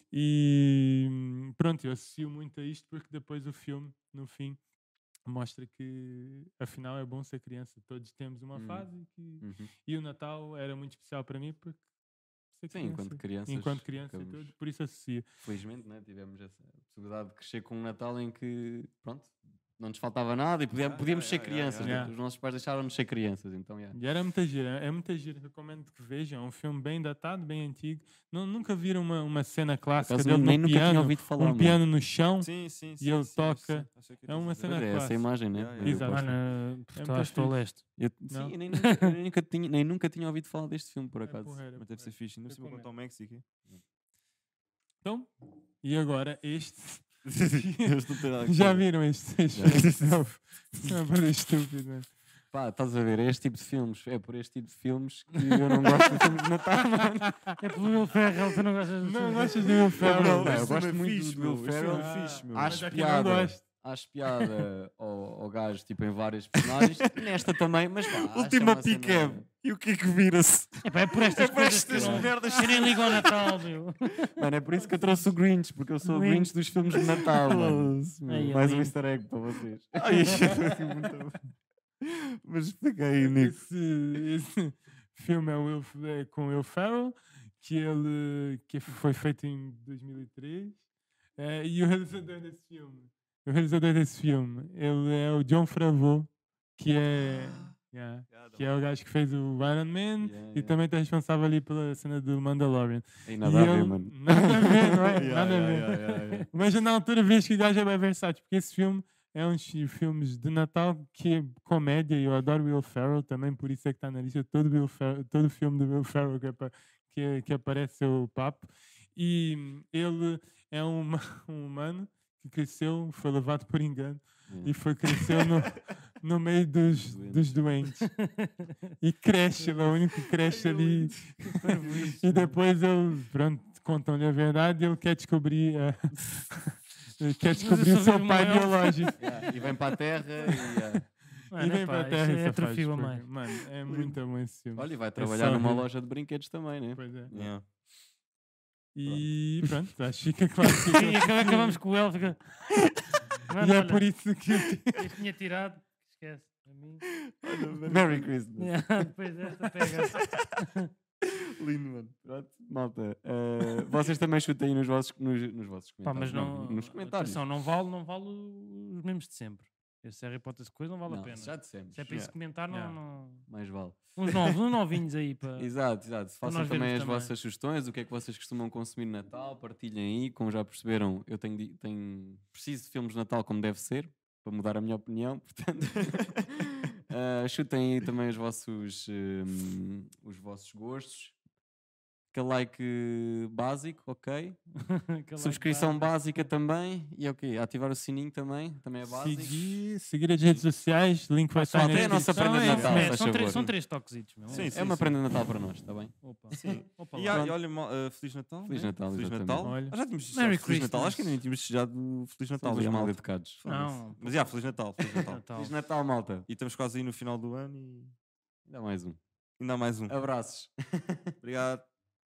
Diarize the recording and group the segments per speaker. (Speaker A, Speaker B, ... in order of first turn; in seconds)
Speaker A: 0.1-4.6, 5.2-11.8, 12.5-15.2, 21.8-22.1, 23.9-36.4, 36.9-37.5, 41.2-42.9, 45.0-52.1, 59.0-60.7, 61.9-63.6, 74.8-75.3, 83.2-90.8, 91.4-105.9, 106.5-128.2, 129.0-131.2, 132.2-139.3, 141.5-145.8, 146.9-147.3, 148.9-151.8, 153.6-155.1, 172.7-172.9, 199.1-203.2, 209.6-209.9
Speaker B: 8.5-8.9, 9.4-9.7, 12.7-14.5, 15.4-24.0, 30.0-31.8, 34.6-36.3, 38.0-41.6, 49.5-49.9, 52.5-57.4, 59.9-69.5, 71.9-72.3, 74.3-80.8, 100.2-100.8, 103.2-105.1, 124.5-124.7, 127.0-127.5, 139.2-141.0, 144.8-147.6, 149.0-149.7, 157.8-159.1, 162.2-167.4, 171.1-172.0, 173.5-174.0, 175.6-191.4, 192.3-194.6, 195.4-199.8, 201.7-203.7, 204.5-206.7, 207.3-207.6, 208.7-209.7, 212.6-213.6, 215.5-216.5, 218.7-219.2, 220.1-221.3
Speaker C: 20.7-22.1, 32.4-34.8, 35.5-36.1, 41.8-43.4, 47.2-48.9, 49.6-50.2, 59.9-62.9, 66.7-67.1, 68.1-73.5, 76.9-78.2, 80.0-81.4, 82.0-83.6, 97.3-97.7, 98.3-98.7, 105.1-106.5, 130.3-132.2, 143.8-144.2, 147.3-147.6, 157.2-158.1, 161.6-162.1, 202.7-203.7, 204.5-205.1, 206.6-215.4, 216.5-218.1, 219.6-220.1, 221.4-221.9
Speaker D: 36.1-37.8, 38.7-39.1, 57.6-59.8, 70.8-74.3, 76.0-76.5, 78.3-78.9, 127.9-128.9, 131.6-132.2, 137.5-139.7, 141.5-143.3, 150.8-152.4, 153.5-154.1, 154.9-157.1, 158.6-160.9, 166.0-173.5, 174.2-175.7, 176.4-177.3, 194.8-196.2, 201.6-205.1, 206.2-207.4, 210.3-211.4, 213.7-214.6, 215.1-215.7